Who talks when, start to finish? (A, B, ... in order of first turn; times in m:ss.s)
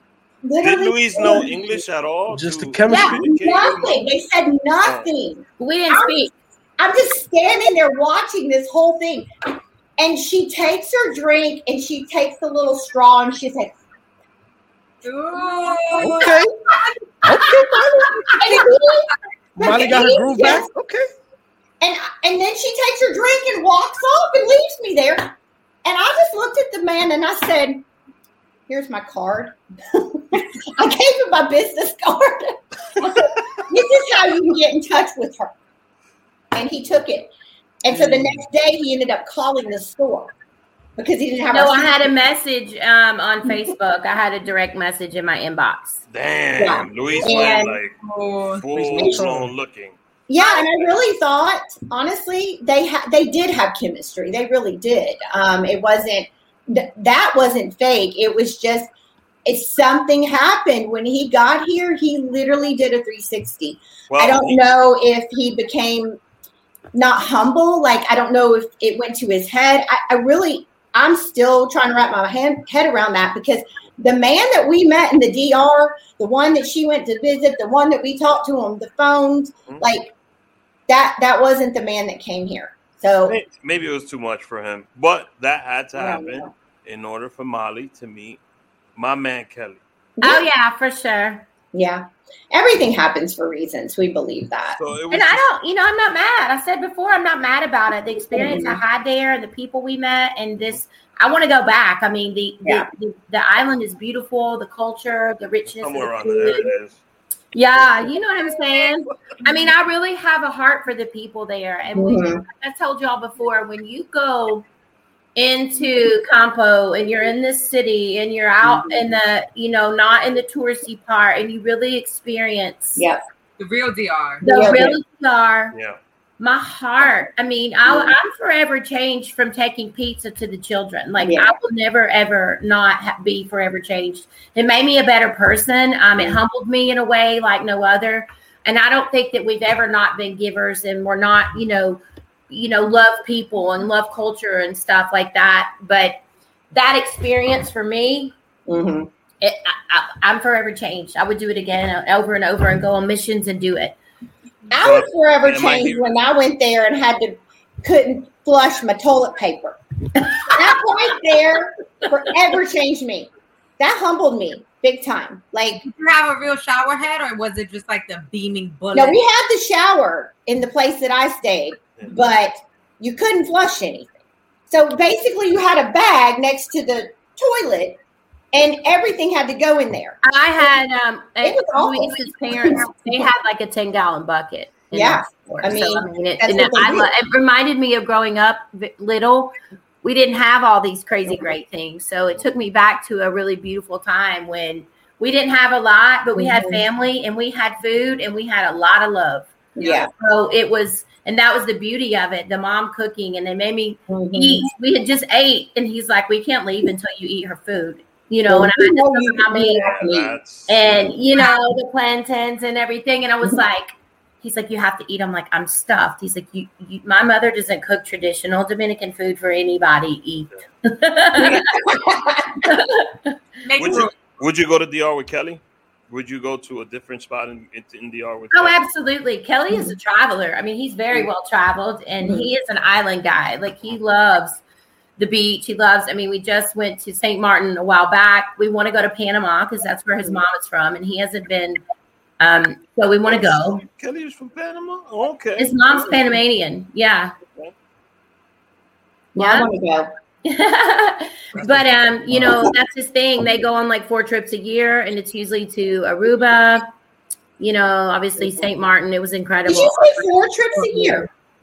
0:00.4-0:01.8 A
0:00.6-0:04.0 B
0:02.3-0:03.3 C
0:02.9-0:09.3 A
0:04.8-0:05.1 B
0:05.6-0:06.3 D
0:10.0-0:13.7 A
0:15.0-0:16.4 E
0:16.0-0:16.2 A
0:16.0-0:16.5 C
0:17.2-0:18.5 C
0:18.3-0:20.7 A
0:19.6-0:21.1 C
0:21.8-0:25.3 A
0:25.8-0:27.8 A
0:28.7-0:35.5 A
0:36.5-0:37.3 A
0:37.8-0:40.3 A
0:37.9-0:38.4 C
0:41.0-0:42.1 A
0:41.5-0:46.0 D
0:46.1-0:48.0 B
0:46.6-0:47.8 A
0:48.0-0:48.7 E
0:48.6-0:50.0 B
0:48.7-0:49.5 C
0:50.3-0:58.9 A
0:59.4-1:06.2 A
1:04.1-1:04.6 B
1:06.9-1:20.1 A
1:20.9-1:23.4 A
1:23.3-1:28.4 B
1:25.9-1:26.5 A
1:29.0-1:29.8 B
1:30.2-1:30.4 A
1:30.2-1:31.5 D
1:31.7-1:34.8 A
1:34.8-1:35.5 B
1:35.1-1:46.7 D
1:38.3-1:38.8 A
1:45.7-1:47.0 B
1:47.5-1:54.7 D
1:47.8-1:48.1 B
1:52.0-1:52.4 A
1:55.4-2:03.0 D
1:58.6-1:59.0 A
2:03.6-2:04.4 E
2:04.4-2:05.0 A
2:04.4-2:05.8 D
2:05.7-2:06.0 B
2:06.4-2:26.2 D
2:07.9-2:08.1 A
2:11.2-2:11.6 A
2:26.7-2:28.3 D
2:28.7-2:29.1 A
2:29.4-2:34.0 D
2:34.7-2:45.8 A
2:34.8-2:36.1 B
2:45.8-2:49.2 E
2:48.9-2:54.1 A
2:54.7-2:58.0 A
2:58.5-3:00.7 A
3:00.2-3:29.9 D
3:01.4-3:03.3 A
3:04.9-3:07.1 A
3:16.4-3:16.8 A
3:19.8-3:20.1 A
3:24.1-3:24.7 A
3:28.5-3:30.4 A
3:29.8-3:31.1 B
3:30.7-3:42.0 D
3:41.4-3:42.6 A
3:42.6-3:43.4 D
3:43.6-3:44.1 E
3:43.8-3:48.8 B
3:48.5-3:54.6 D
3:52.2-3:52.5 A
3:55.2-4:01.8 D
4:02.4-4:03.8 D
4:03.3-4:06.2 B
4:05.6-4:07.3 D
4:09.4-4:10.1 A
4:09.4-4:09.7 D
4:10.4-4:16.9 D
4:11.6-4:11.8 B
4:17.6-4:21.2 D
4:19.6-4:21.3 A